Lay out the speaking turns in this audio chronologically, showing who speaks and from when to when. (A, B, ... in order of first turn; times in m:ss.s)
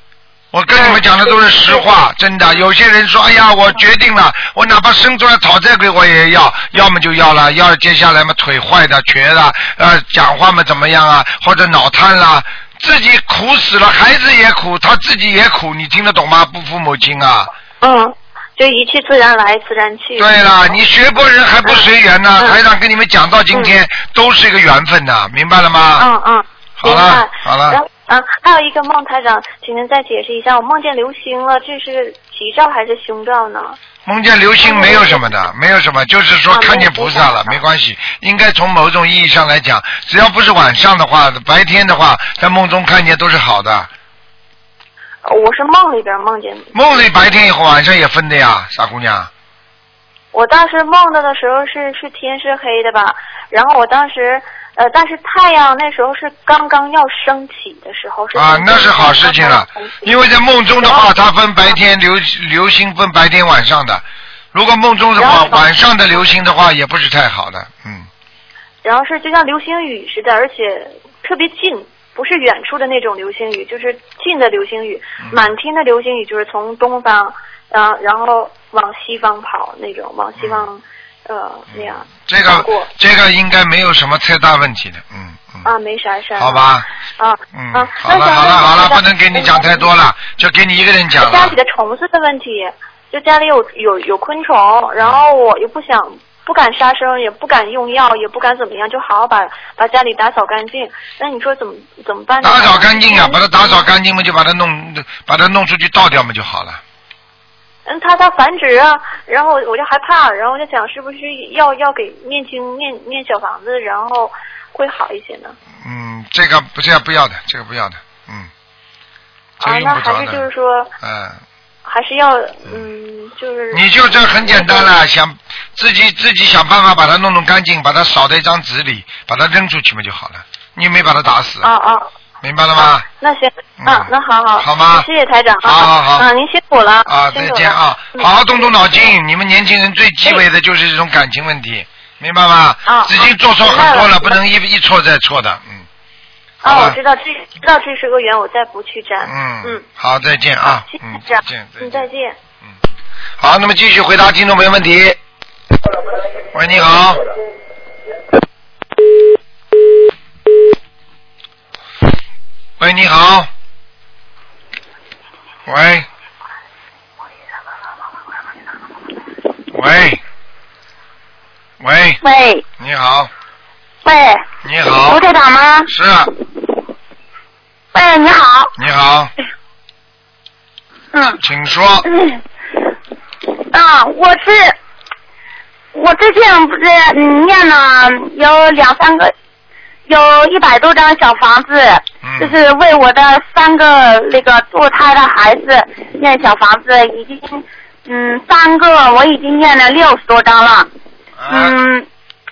0:00.5-0:17.5 A
0:00.7-0:01.9 B
0:17.8-0:20.7 B
0:20.2-0:26.1 A
0:26.0-0:33.8 B
0:26.8-0:27.8 A
0:34.0-0:43.9 A
0:34.6-0:35.3 B
0:36.5-0:37.6 B
0:45.2-0:47.3 B
0:46.7-0:49.3 A
0:50.3-1:00.1 B
0:58.4-1:08.1 A
1:00.8-1:01.1 B
1:05.2-1:05.7 B
1:08.8-1:22.9 B
1:15.2-1:15.5 A
1:20.4-1:20.6 A
1:21.7-1:25.6 A
1:25.6-1:29.9 B
1:26.4-1:26.8 A
1:27.5-1:31.6 A
1:31.2-1:43.9 B
1:35.0-1:35.2 A
1:42.4-1:46.8 A
1:47.9-1:55.6 B
1:55.8-1:58.5 A
1:59.6-2:00.4 A
1:59.6-2:00.9 B
2:01.0-2:01.4 A
2:01.8-2:04.9 B
2:03.7-2:11.7 A
2:11.6-2:12.0 B
2:12.4-2:13.0 A
2:13.2-2:18.7 B
2:13.8-2:15.1 A
2:15.6-2:16.3 A
2:17.0-2:25.8 A
2:22.9-2:24.4 B
2:26.6-2:27.0 A
2:26.6-2:29.8 B
2:29.2-2:32.0 A
2:30.9-2:32.4 B
2:33.4-2:35.2 A
2:36.5-2:37.2 A
2:42.8-2:43.5 A
2:45.6-2:46.0 A
2:49.7-2:50.2 A
2:51.8-2:52.2 A
2:52.2-2:52.6 C
2:52.8-2:53.3 A
2:54.0-2:54.4 C
2:54.6-2:55.2 A
2:55.0-2:55.9 C
2:55.9-2:56.3 A
2:57.9-2:58.7 C
2:58.8-2:59.3 A
3:01.1-3:01.4 C
3:01.4-3:02.0 A
3:02.0-3:02.4 C
3:03.5-3:04.7 C
3:05.9-3:09.3 C
3:10.1-3:20.9 C
3:12.2-3:12.6 A
3:21.4-3:21.8 A
3:21.5-3:22.0 C